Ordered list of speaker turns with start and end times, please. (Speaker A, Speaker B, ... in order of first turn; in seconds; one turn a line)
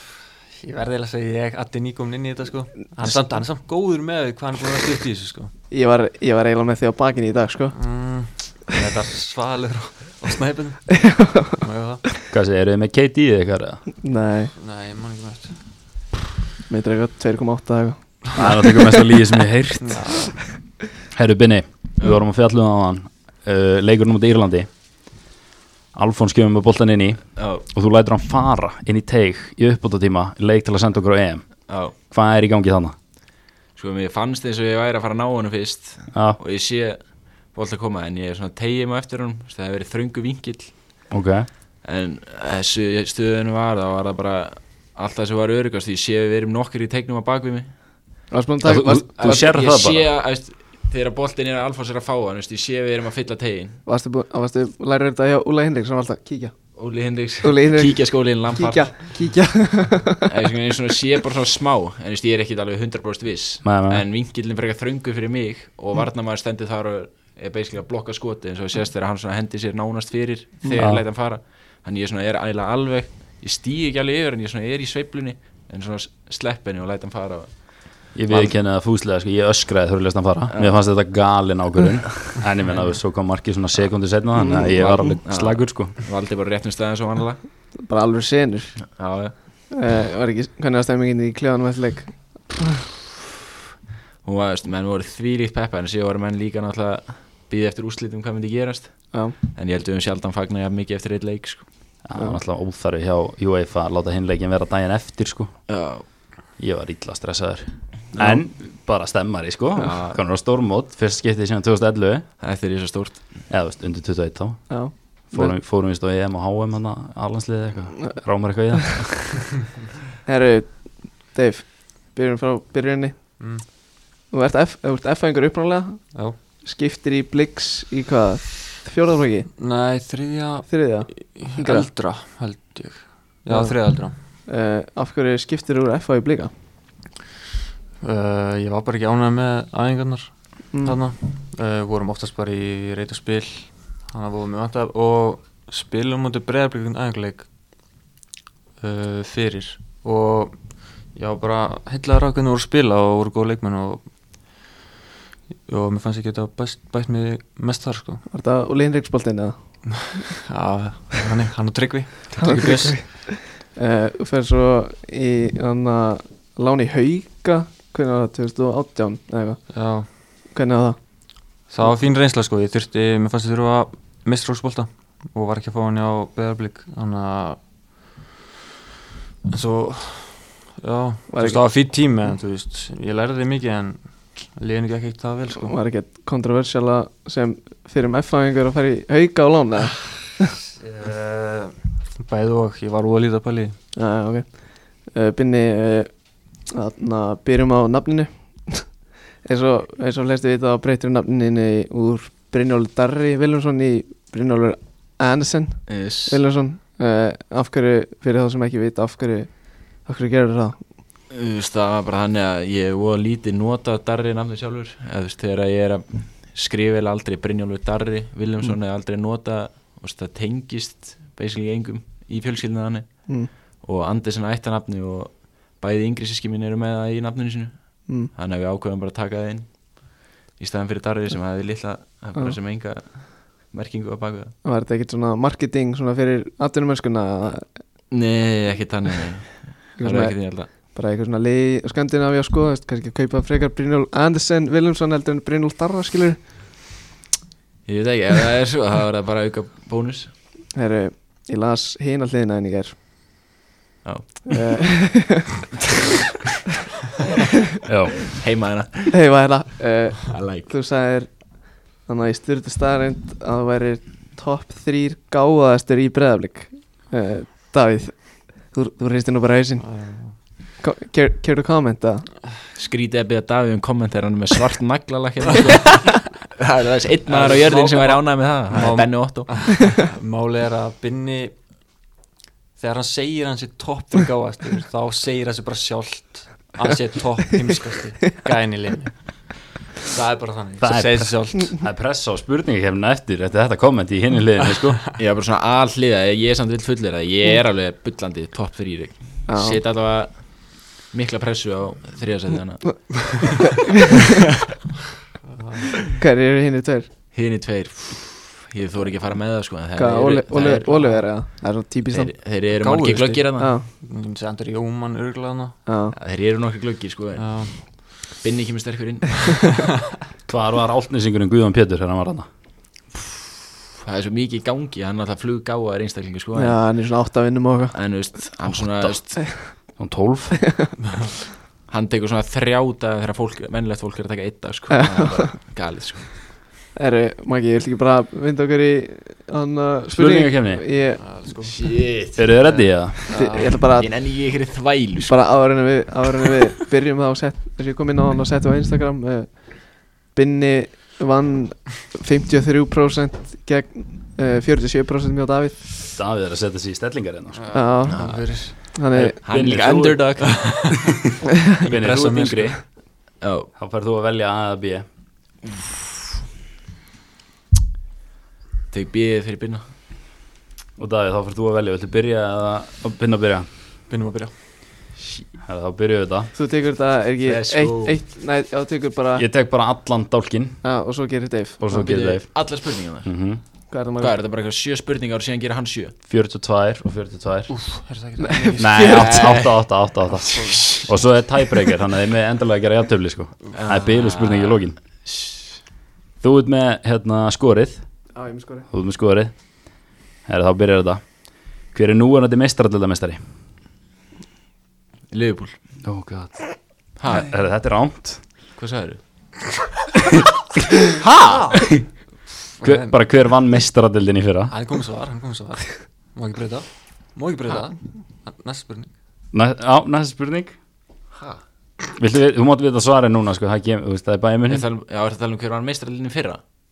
Speaker A: 0.6-5.5
Speaker B: 5.7-7.8
Speaker A: 7.7-12.0
Speaker B: 11.0-11.6
Speaker C: 12.3-13.8
Speaker B: 14.0-14.5
Speaker A: 14.5-15.6
Speaker B: 16.7-19.1
Speaker C: 18.3-20.4
Speaker A: 19.8-20.3
Speaker C: 21.0-24.7
Speaker C: 25.9-33.0
Speaker D: 27.4-27.6
Speaker D: 31.7-31.9
Speaker D: 33.7-40.8
Speaker C: 36.1-36.4
Speaker C: 41.1-41.5
Speaker D: 41.8-47.8
Speaker B: 48.3-49.5
Speaker C: 48.6-50.1
Speaker D: 49.2-53.8
Speaker B: 53.9-56.5
Speaker D: 56.8-59.2
Speaker B: 57.4-60.3
Speaker D: 60.2-78.5
Speaker C: 63.6-64.0
Speaker C: 70.8-71.0
Speaker C: 78.1-86.0
Speaker B: 84.4-84.7
Speaker D: 84.7-87.4
Speaker B: 87.7-88.9
Speaker D: 88.8-89.3
Speaker B: 89.7-92.8
Speaker D: 94.2-101.7
Speaker C: 102.0-105.6
Speaker D: 105.7-106.1
Speaker C: 106.6-112.3
Speaker D: 109.8-110.2
Speaker D: 112.4-113.5
Speaker C: 113.5-119.6
Speaker B: 114.7-115.5
Speaker B: 120.2-123.8
Speaker A: 123.4-123.6
Speaker B: 124.3-129.5
Speaker A: 129.6-134.1
Speaker B: 130.7-131.9
Speaker B: 133.5-136.5
Speaker A: 138.0-147.5
Speaker B: 140.7-141.0
Speaker A: 148.8-154.1
Speaker A: 155.7-158.2
Speaker B: 158.3-160.3
Speaker A: 160.3-163.1
Speaker B: 162.4-171.3
Speaker A: 169.7-170.1
Speaker A: 171.7-177.7
Speaker A: 179.5-185.8
Speaker B: 181.3-181.6
Speaker B: 185.6-190.3
Speaker A: 190.8-193.8
Speaker B: 193.9-210.9
Speaker D: 205.9-206.4
Speaker D: 211.3-234.5
Speaker B: 234.6-237.7
Speaker D: 238.1-240.7
Speaker B: 240.0-246.5
Speaker D: 247.8-250.3
Speaker B: 250.7-252.9
Speaker D: 254.0-254.6
Speaker B: 254.5-255.5
Speaker C: 257.8-258.3
Speaker D: 258.3-259.2
Speaker B: 259.1-272.3
Speaker D: 260.3-260.7
Speaker A: 269.8-270.4
Speaker D: 272.8-279.8
Speaker A: 277.3-281.6
Speaker A: 282.8-291.8
Speaker C: 290.8-295.0
Speaker D: 295.2-303.5
Speaker B: 299.5-299.8
Speaker A: 305.5-306.1
Speaker B: 306.1-307.1
Speaker D: 307.3-311.1
Speaker B: 309.9-312.3
Speaker D: 312.1-313.7
Speaker A: 312.7-315.8
Speaker B: 313.6-313.9
Speaker B: 315.9-316.1
Speaker D: 316.1-319.6
Speaker A: 317.4-318.1
Speaker C: 320.4-322.5
Speaker D: 324.0-326.8
Speaker B: 326.5-328.4
Speaker D: 327.9-329.4
Speaker B: 329.4-329.7
Speaker C: 329.7-330.7
Speaker D: 331.9-336.4
Speaker B: 334.9-335.4
Speaker B: 336.9-341.2
Speaker C: 340.1-340.8
Speaker A: 341.1-343.7
Speaker D: 341.6-342.5
Speaker C: 342.3-343.2
Speaker B: 343.3-344.1
Speaker D: 343.9-345.6
Speaker B: 345.3-355.8
Speaker C: 356.1-357.8
Speaker A: 357.5-358.8
Speaker B: 357.7-359.4
Speaker D: 358.1-358.8
Speaker C: 359.1-360.9
Speaker D: 359.4-361.0
Speaker A: 360.7-361.1
Speaker C: 361.8-363.0
Speaker A: 361.8-362.8
Speaker D: 363.4-363.7
Speaker C: 363.8-365.1
Speaker D: 368.9-369.8
Speaker C: 371.0-373.7
Speaker A: 374.1-374.5
Speaker C: 375.6-376.5
Speaker B: 376.5-379.4
Speaker D: 377.4-378.2
Speaker C: 379.4-380.8
Speaker B: 380.8-382.1
Speaker C: 381.8-383.6
Speaker D: 381.9-383.3
Speaker B: 383.9-384.4
Speaker D: 384.2-386.1
Speaker C: 386.2-387.9
Speaker A: 387.7-389.1
Speaker B: 388.4-389.3
Speaker C: 388.8-395.0
Speaker D: 389.0-391.1
Speaker A: 390.5-391.0
Speaker D: 393.7-395.8
Speaker C: 396.4-398.2
Speaker B: 398.3-398.9
Speaker C: 398.9-403.4
Speaker D: 405.3-405.8
Speaker C: 406.0-408.4
Speaker D: 407.2-407.5
Speaker D: 408.7-409.2
Speaker D: 411.2-411.8
Speaker C: 411.7-412.1
Speaker A: 412.8-413.2
Speaker C: 412.8-414.7
Speaker A: 414.7-419.1
Speaker C: 419.5-420.8
Speaker D: 421.3-421.6
Speaker C: 422.1-424.9
Speaker D: 424.7-426.6